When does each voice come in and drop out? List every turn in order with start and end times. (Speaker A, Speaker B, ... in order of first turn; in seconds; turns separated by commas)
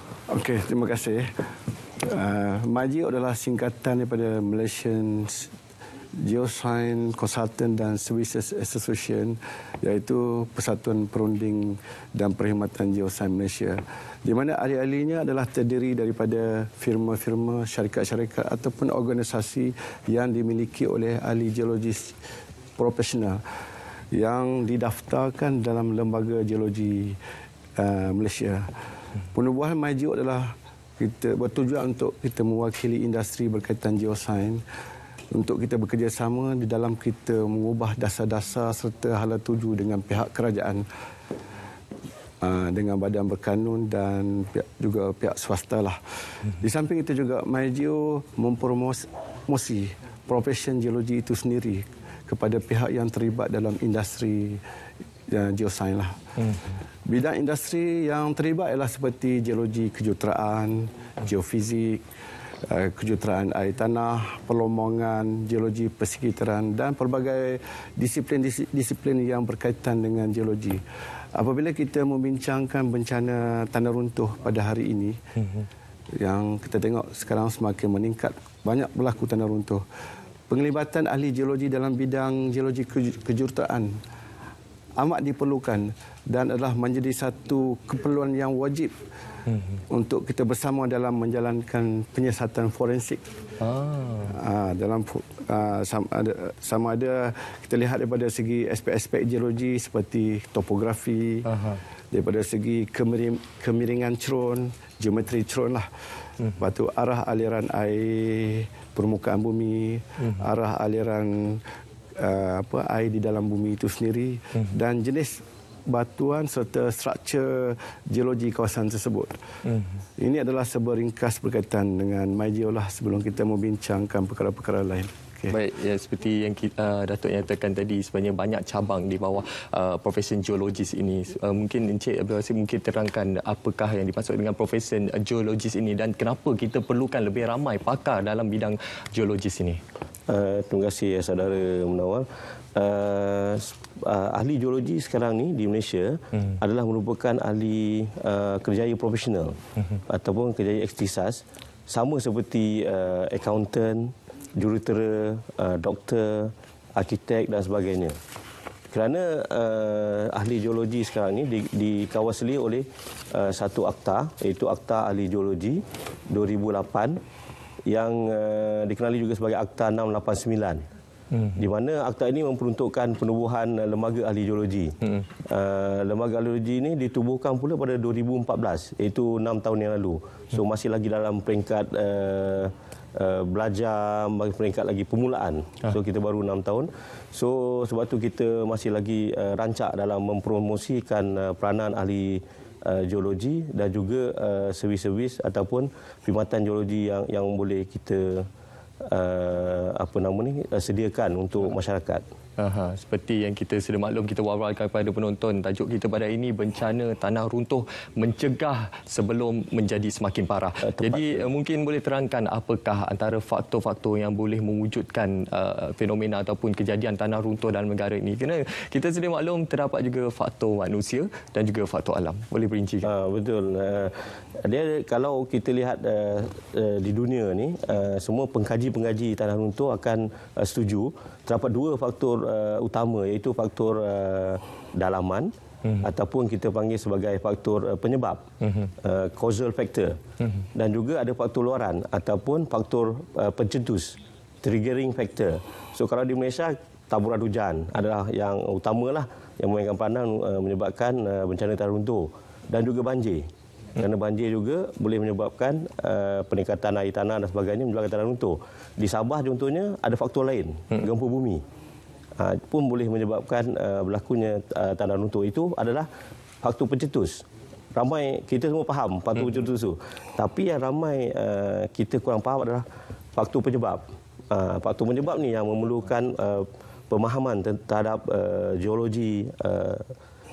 Speaker A: 0.3-1.3, Speaker A: 2.0-5.5, Speaker A: 6.2-22.1, Speaker A: 22.8-23.4, Speaker A: 24.1-27.2, Speaker A: 27.8-28.7, Speaker A: 29.3-34.6, Speaker A: 35.3-40.8, Speaker A: 42.4-46.0, Speaker A: 46.6-54.6, Speaker A: 55.3-56.2, Speaker A: 57.0-62.0, Speaker A: 62.6-70.8, Speaker A: 71.3-75.2, Speaker A: 76.2-79.8, Speaker A: 80.5-84.0, Speaker A: 85.0-88.9, Speaker A: 89.9-93.2, Speaker B: 93.6-94.3, Speaker A: 94.3-101.5, Speaker B: 101.4-101.8, Speaker A: 102.1-105.8, Speaker A: 106.5-111.6, Speaker A: 112.2-119.4, Speaker B: 119.7-119.9, Speaker A: 120.2-125.6, Speaker B: 125.5-139.8, Speaker C: 140.3-149.6, Speaker C: 150.1-158.1, Speaker C: 158.9-167.2, Speaker C: 167.9-170.8, Speaker B: 171.3-171.6, Speaker C: 171.6-174.9, Speaker C: 175.4-198.5, Speaker C: 199.0-202.2, Speaker B: 202.6-223.1, Speaker C: 210.8-211.4, Speaker C: 223.0-235.5, Speaker C: 236.0-238.4, Speaker B: 238.6-238.9, Speaker C: 239.0-240.2, Speaker C: 240.7-253.4, Speaker C: 254.0-261.6, Speaker C: 262.4-266.1, Speaker C: 266.6-280.1